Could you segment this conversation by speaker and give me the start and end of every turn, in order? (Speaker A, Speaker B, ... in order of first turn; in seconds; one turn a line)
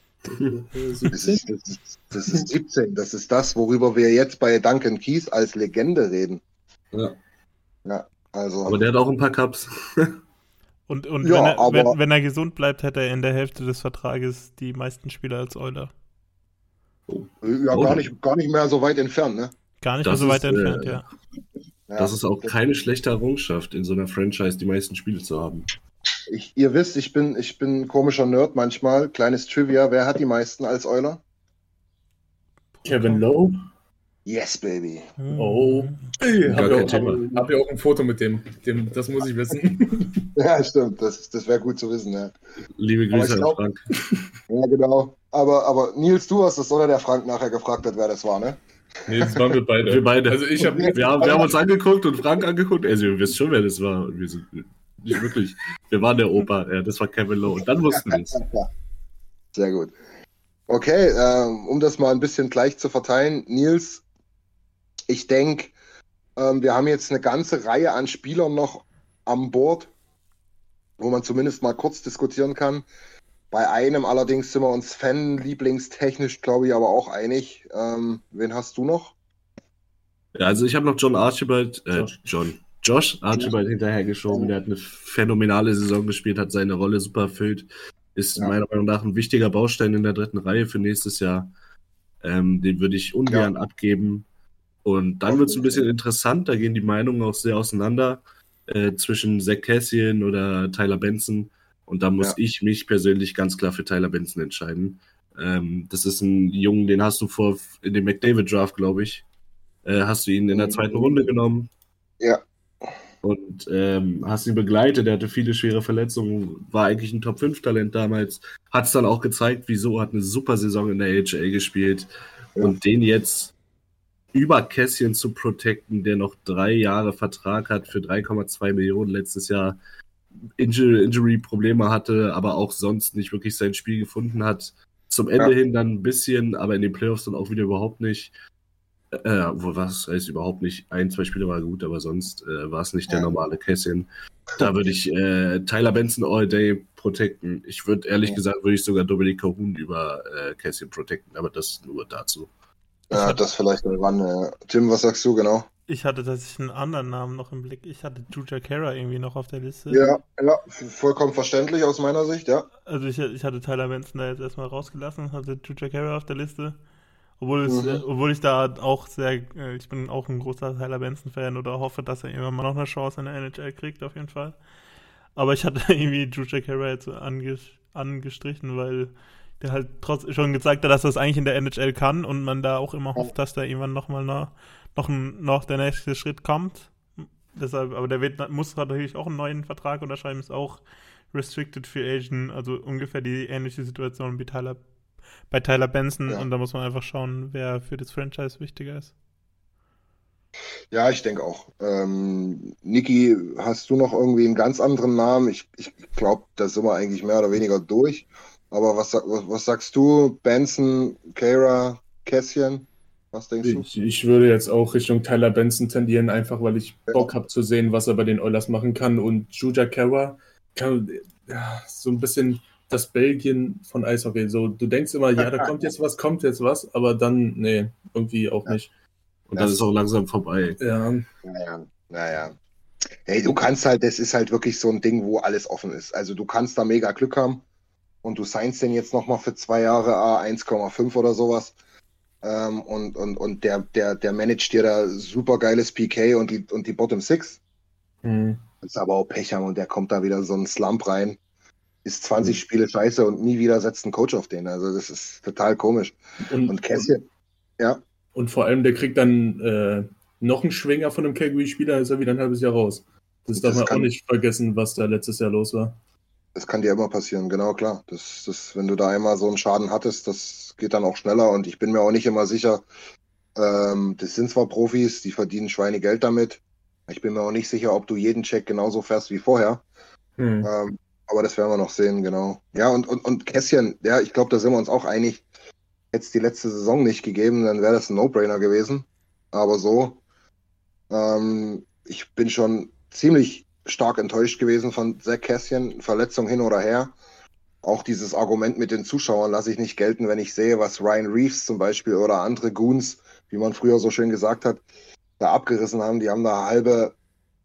Speaker A: 0.5-1.4
Speaker B: 1.1-6.4
Speaker B: 7.8-8.8
Speaker C: 8.6-10.2
Speaker D: 10.9-15.9
Speaker B: 11.2-12.0
Speaker C: 17.1-18.0
Speaker B: 17.4-19.5
Speaker D: 19.8-21.0
Speaker C: 20.0-21.0
Speaker B: 21.9-22.5
Speaker C: 22.0-25.7
Speaker B: 26.3-31.2
Speaker D: 32.8-33.2
Speaker A: 32.8-33.5
Speaker B: 34.2-35.1
Speaker D: 35.2-36.0
Speaker A: 35.3-40.3
Speaker C: 36.5-37.3
Speaker B: 36.9-37.5
Speaker B: 40.4-42.3
Speaker C: 42.8-43.8
Speaker B: 43.1-43.6
Speaker B: 44.5-48.6
Speaker A: 49.0-51.5
Speaker B: 49.1-49.4
Speaker C: 49.8-58.4
Speaker B: 50.6-51.5
Speaker B: 58.1-58.6
Speaker B: 59.5-59.9
Speaker B: 60.7-64.0
Speaker B: 65.1-65.7
Speaker B: 66.3-69.9
Speaker B: 71.0-72.9
Speaker B: 73.5-79.2
Speaker C: 80.3-91.5
Speaker A: 81.9-82.2
Speaker C: 92.2-94.2
Speaker C: 94.8-109.2
Speaker B: 95.3-95.8
Speaker C: 109.8-111.7
Speaker B: 110.5-111.1
Speaker C: 113.2-123.5
Speaker C: 124.3-129.8
Speaker C: 130.6-138.3
Speaker C: 139.1-152.5
Speaker D: 153.1-153.4
Speaker B: 153.1-155.7
Speaker D: 155.9-160.1
Speaker B: 159.9-162.7
Speaker D: 162.8-166.8
Speaker D: 167.4-174.6
Speaker B: 167.7-168.0
Speaker D: 175.3-194.8
Speaker D: 195.5-199.1
Speaker B: 200.9-213.9
Speaker A: 213.6-228.9
Speaker B: 225.4-225.7
Speaker C: 229.5-230.8
Speaker B: 229.6-229.8
Speaker A: 230.8-231.2
Speaker B: 231.4-232.5
Speaker B: 233.2-237.6
Speaker B: 238.2-241.8
Speaker B: 242.4-247.6
Speaker A: 248.2-248.6
Speaker B: 248.8-251.4
Speaker B: 252.0-257.2
Speaker A: 256.4-257.1
Speaker A: 258.3-266.0
Speaker B: 263.6-264.1
Speaker B: 266.5-272.9
Speaker B: 273.6-279.8
Speaker A: 280.4-280.7
Speaker B: 280.6-285.4
Speaker B: 286.1-290.2
Speaker B: 291.1-297.1
Speaker B: 297.8-304.9
Speaker B: 305.4-307.1